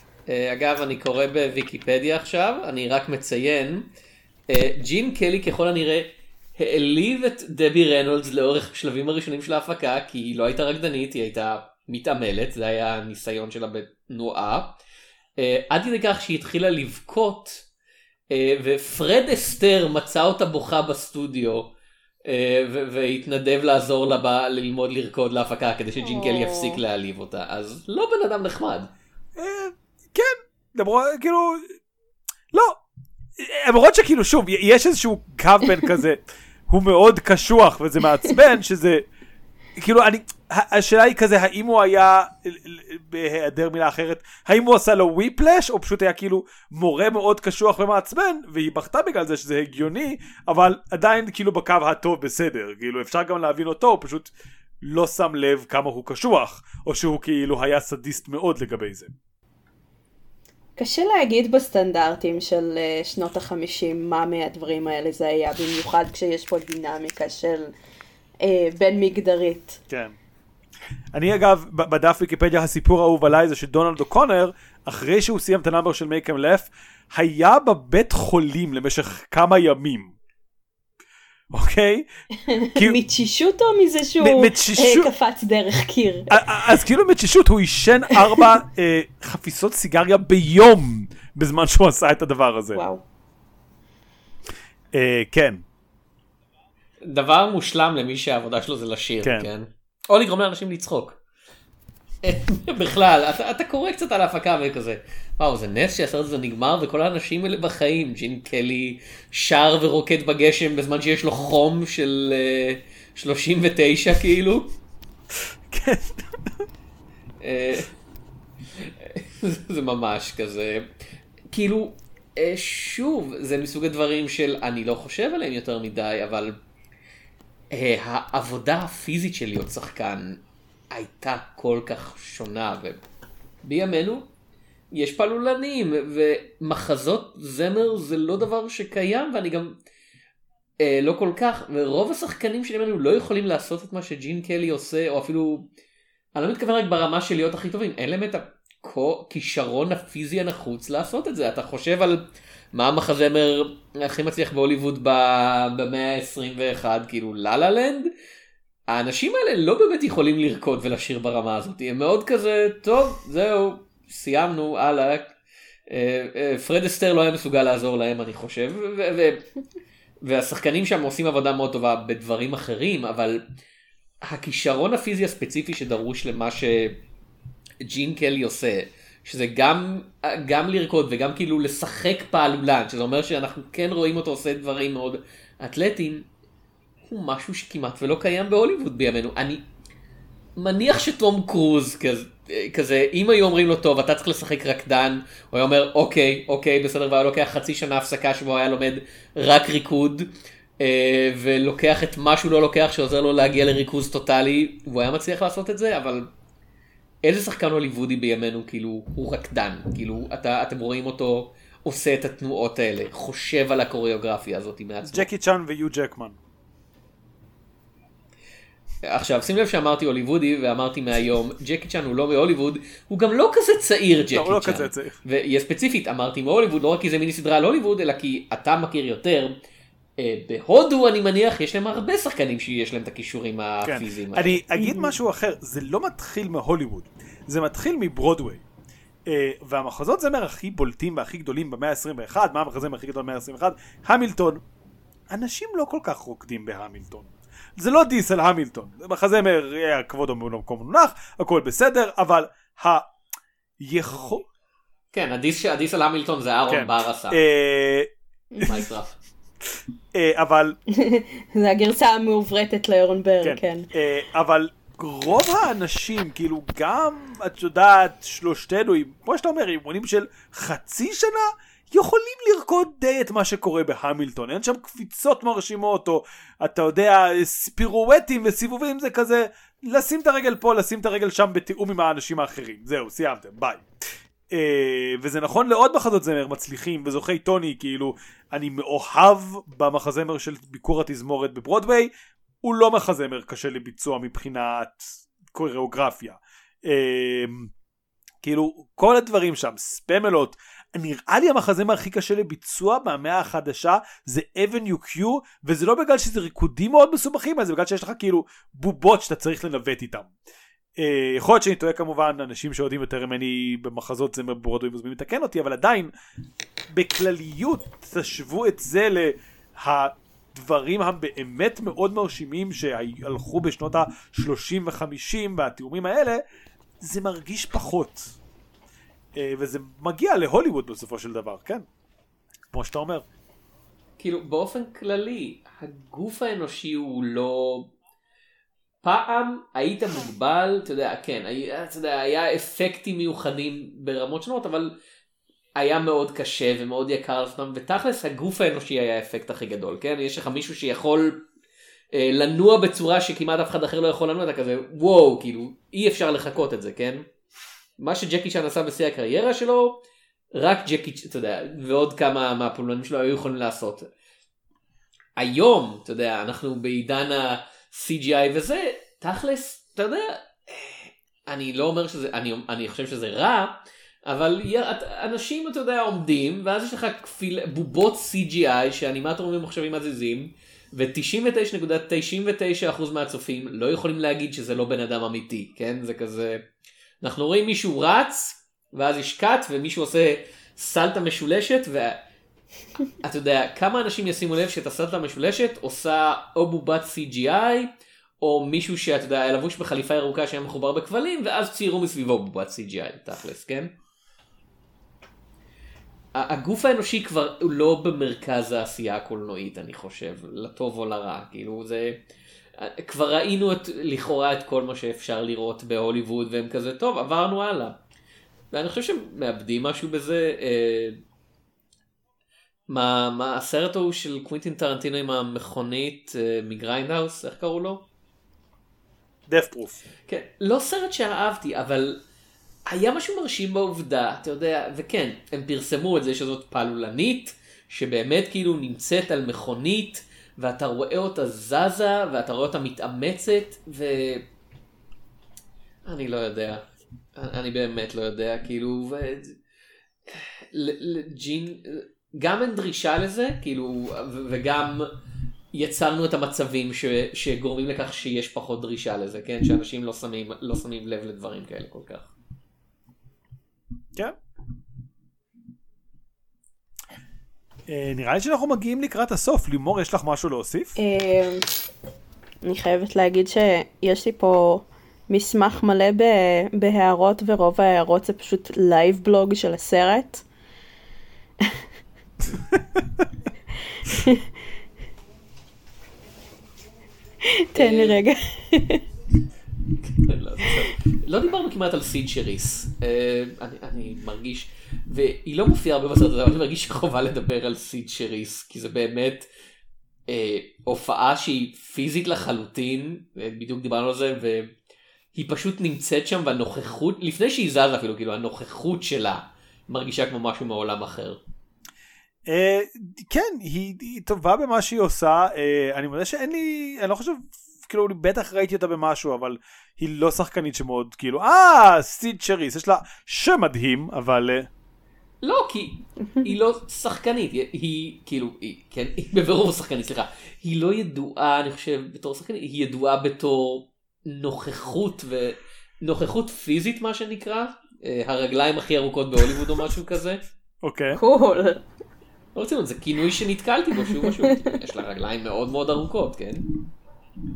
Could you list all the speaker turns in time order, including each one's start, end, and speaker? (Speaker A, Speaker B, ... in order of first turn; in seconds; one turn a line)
Speaker A: 0.3-3.9
Speaker A: 4.5-14.8
Speaker A: 15.4-17.6
Speaker A: 18.3-21.7
Speaker A: 22.2-28.9
Speaker B: 26.0-26.8
Speaker C: 29.4-31.8
Speaker C: 32.5-32.8
Speaker C: 33.4-39.1
Speaker C: 39.8-59.1
Speaker B: 60.8-67.7
Speaker B: 68.4-69.8
Speaker C: 69.9-70.2
Speaker C: 71.1-80.2
Speaker C: 81.5-82.1
Speaker B: 82.5-86.4
Speaker C: 84.2-85.1
Speaker C: 86.3-92.8
Speaker B: 92.7-93.0
Speaker C: 94.9-95.6
Speaker A: 97.0-101.2
Speaker C: 99.2-99.5
Speaker A: 102.2-114.8
Speaker C: 115.7-116.7
Speaker A: 117.4-117.9
Speaker A: 118.7-120.9
Speaker A: 121.5-126.6
Speaker A: 127.7-133.0
Speaker A: 133.6-134.3
Speaker A: 134.9-139.7
Speaker A: 140.8-145.7
Speaker A: 146.3-158.1
Speaker A: 158.9-165.3
Speaker A: 165.9-169.5
Speaker A: 170.2-173.4
Speaker A: 174.2-177.0
Speaker A: 177.8-186.3
Speaker A: 187.1-189.6
Speaker A: 190.6-206.3
Speaker A: 207.2-215.3
Speaker C: 215.1-216.4
Speaker A: 219.0-229.6
Speaker C: 224.3-225.2
Speaker A: 230.2-234.6
Speaker C: 233.8-238.6
Speaker B: 234.8-235.2
Speaker C: 239.3-244.6
Speaker C: 245.3-253.1
Speaker C: 253.8-254.5
Speaker A: 255.1-257.4
Speaker C: 256.7-258.1
Speaker B: 258.5-258.8
Speaker A: 258.6-259.2
Speaker C: 260.1-260.8
Speaker B: 260.9-263.9
Speaker C: 263.4-283.9
Speaker C: 284.5-297.7
Speaker C: 298.4-310.3
Speaker C: 311.0-316.1
Speaker C: 316.9-326.4
Speaker C: 327.0-328.4
Speaker C: 329.4-331.9
Speaker C: 332.7-333.2
Speaker A: 334.2-337.9
Speaker A: 339.0-344.9
Speaker A: 345.8-351.4
Speaker A: 352.1-357.2
Speaker A: 358.0-360.0
Speaker A: 360.5-364.1
Speaker A: 365.4-386.6
Speaker A: 387.2-392.2
Speaker A: 393.2-397.9
Speaker A: 398.4-403.9
Speaker A: 406.3-412.2
Speaker A: 412.8-418.0
Speaker A: 418.7-421.2
Speaker A: 422.9-428.1
Speaker C: 429.5-430.0
Speaker A: 430.3-432.2
Speaker A: 432.9-444.5
Speaker A: 446.1-446.8
Speaker A: 447.4-449.6
Speaker A: 450.3-455.1
Speaker A: 455.7-462.3
Speaker C: 467.9-471.0
Speaker B: 471.0-471.6
Speaker B: 472.6-480.4
Speaker B: 484.0-484.4
Speaker B: 487.4-489.0
Speaker A: 487.8-488.2
Speaker A: 490.0-499.5
Speaker A: 500.3-504.7
Speaker A: 505.3-511.4
Speaker C: 512.5-524.7
Speaker A: 525.4-540.4
Speaker C: 540.8-541.2
Speaker B: 541.1-541.8
Speaker A: 542.5-546.7